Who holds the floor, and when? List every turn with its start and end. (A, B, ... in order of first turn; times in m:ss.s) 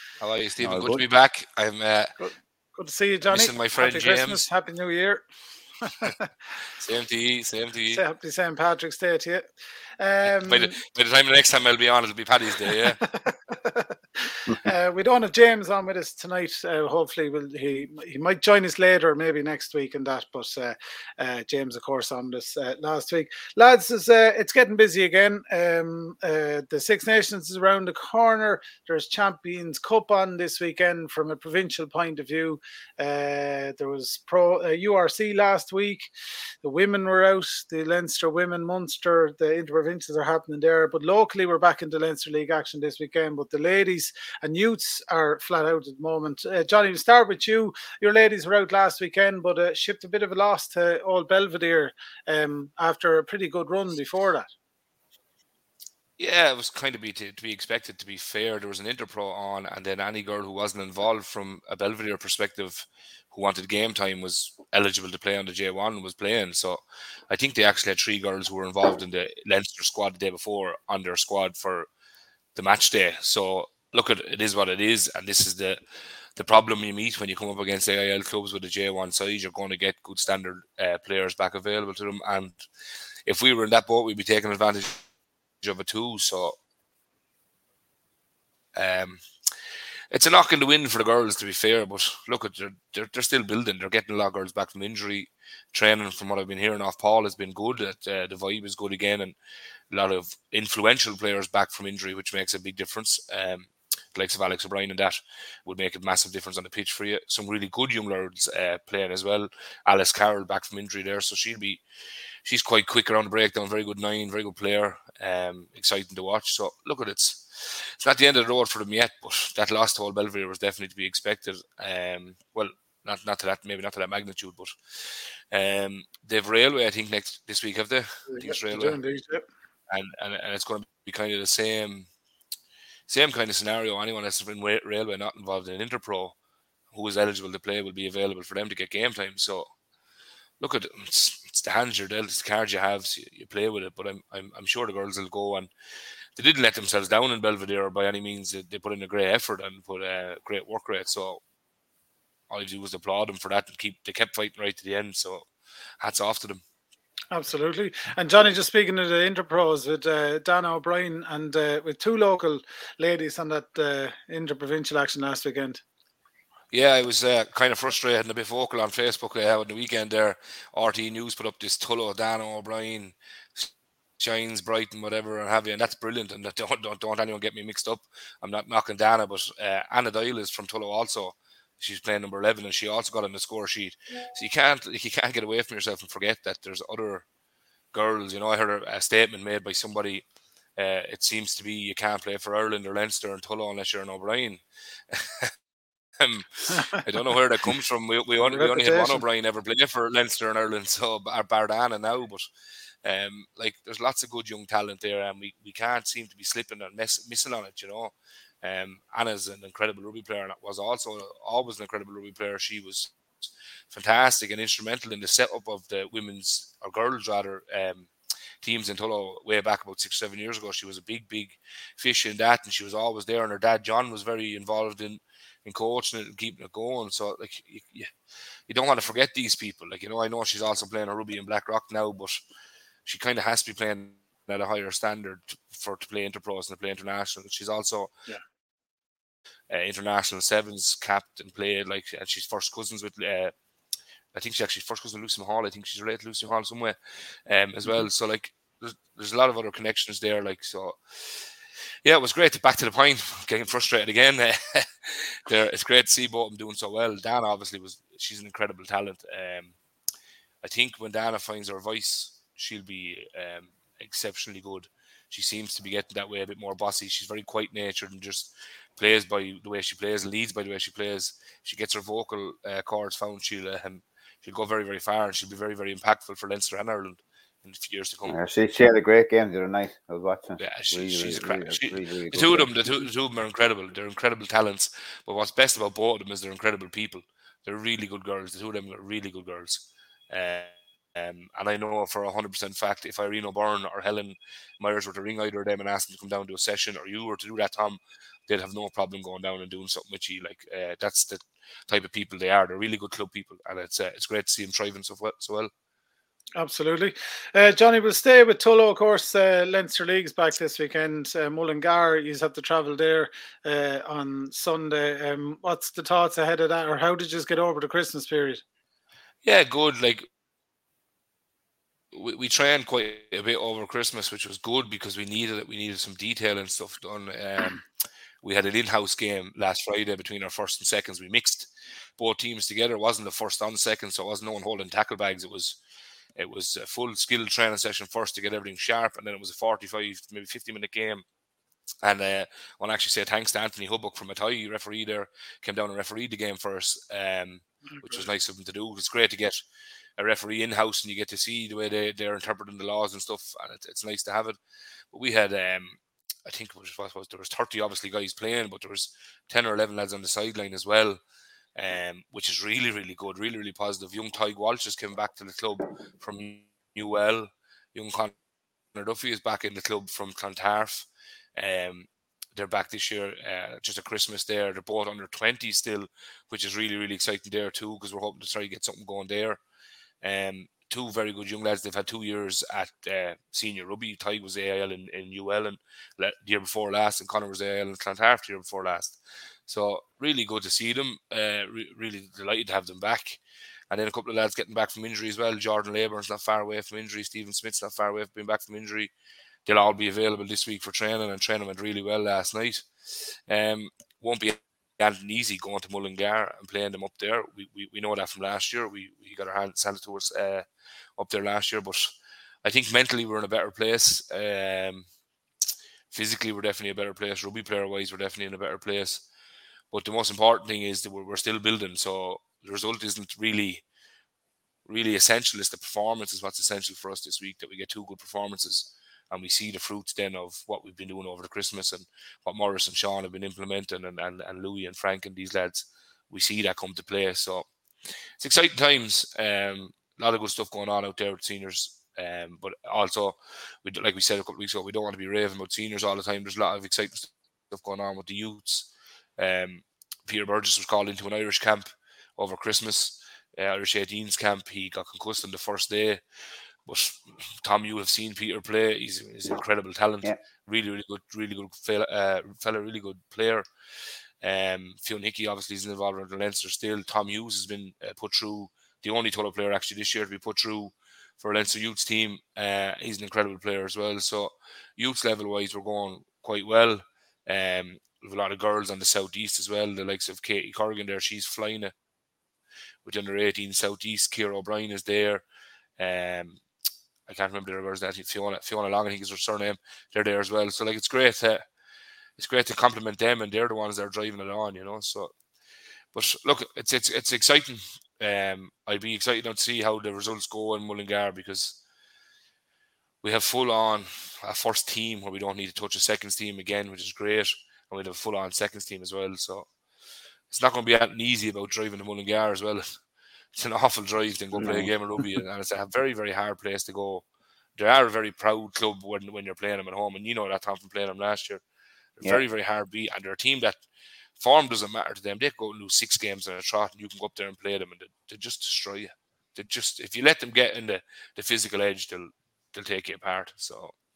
0:00.2-0:02.1 A
0:00.6-0:01.0 B
0:02.2-0:05.2 C
0:03.3-0:04.4 A
0:05.8-0:06.3 C
0:06.7-0:08.0 A
0:07.9-0:09.4 C
0:10.0-0:10.8 C
0:10.2-0:13.0 A
0:12.7-0:36.1 C
0:36.6-0:54.5 C
0:56.2-1:11.9 A
1:12.5-1:15.8 A
1:16.4-1:22.6 A
1:23.2-1:25.0 A
1:25.6-1:26.6 A
1:28.8-1:29.2 A
1:30.1-1:39.3 A
1:39.9-1:51.8 A
1:52.4-2:09.0 A
2:08.3-2:09.4 C
2:09.9-2:12.1 A
2:13.1-2:16.4 A
2:16.9-2:19.7 A
2:20.6-2:25.7 A
2:26.4-2:31.4 A
2:32.5-2:35.5 A
2:36.0-2:36.6 A
2:37.3-2:45.8 C
2:46.7-3:07.2 A
3:07.9-3:10.2 A
3:10.8-3:15.5 A
3:16.2-3:22.5 A
3:18.4-3:19.2 C
3:23.0-3:33.2 A
3:33.9-3:38.1 A
3:38.6-3:48.1 A
3:48.7-3:52.4 A
3:53.0-3:58.1 A
3:59.7-4:03.5 A
4:04.3-4:11.5 A
4:12.0-4:19.8 A
4:20.6-4:38.4 A
4:38.3-4:42.7 B
4:40.6-5:05.7 A
5:06.6-5:18.6 C
5:19.4-5:20.3 A
5:22.1-5:27.8 A
5:28.4-5:35.8 A
5:36.4-5:41.2 A
5:42.0-5:49.6 A
5:48.0-5:48.2 C
5:50.2-5:54.6 A
5:55.1-6:01.2 A
6:01.8-6:08.3 A
6:08.9-6:19.6 A
6:20.2-6:39.1 A
6:39.6-6:50.6 A
6:51.2-6:55.1 A
6:56.1-6:59.2 A
6:59.9-7:03.8 A
7:04.8-7:17.7 A
7:18.4-7:36.2 A
7:36.8-7:43.6 A
7:44.4-8:01.9 A
8:03.0-8:05.4 A
8:06.0-8:06.6 A
8:07.3-8:11.6 A
8:12.4-8:15.3 A
8:16.1-8:21.8 A
8:23.2-8:29.6 A
8:30.5-8:32.8 A
8:33.5-8:37.2 A
8:34.6-8:35.2 B
8:37.8-8:41.6 A
8:42.2-8:43.8 A
8:44.4-8:53.9 A